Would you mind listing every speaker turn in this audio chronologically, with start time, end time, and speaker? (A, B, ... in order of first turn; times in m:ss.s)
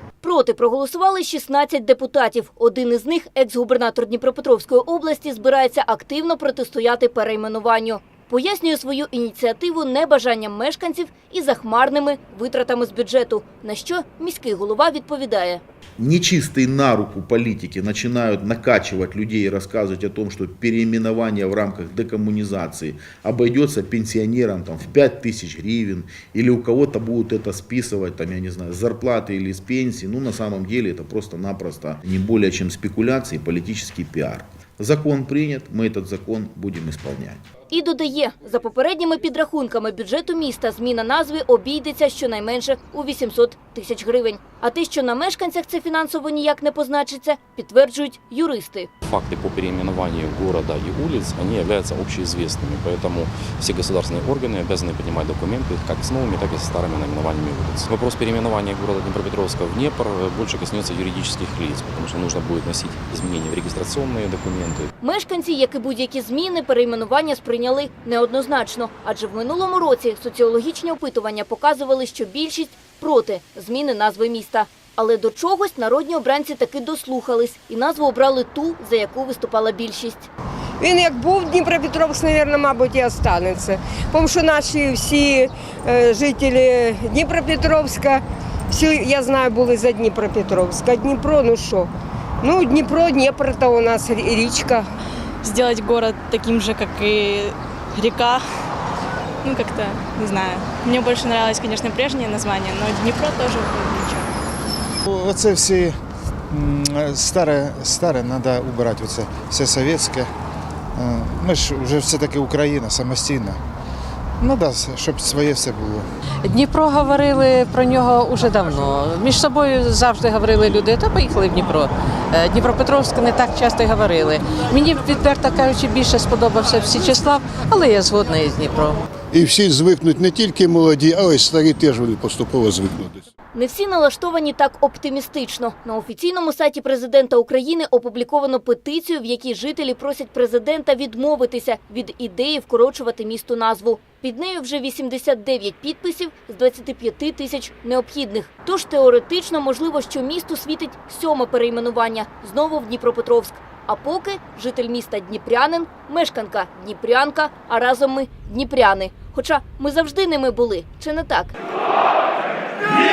0:00.2-0:15.6 A
0:16.0-0:37.4 B
0:37.7-0:48.9 A
0:49.1-1:04.9 C
1:05.0-1:20.3 A
1:20.8-1:34.9 D
1:35.4-1:38.4 E
1:39.4-1:44.3 E
1:45.1-1:46.0 F
1:46.5-1:50.3 F
1:51.0-1:53.6 F
1:54.4-1:56.1 F
1:56.4-2:09.0 G
2:09.3-2:13.2 H
2:13.5-2:41.5 A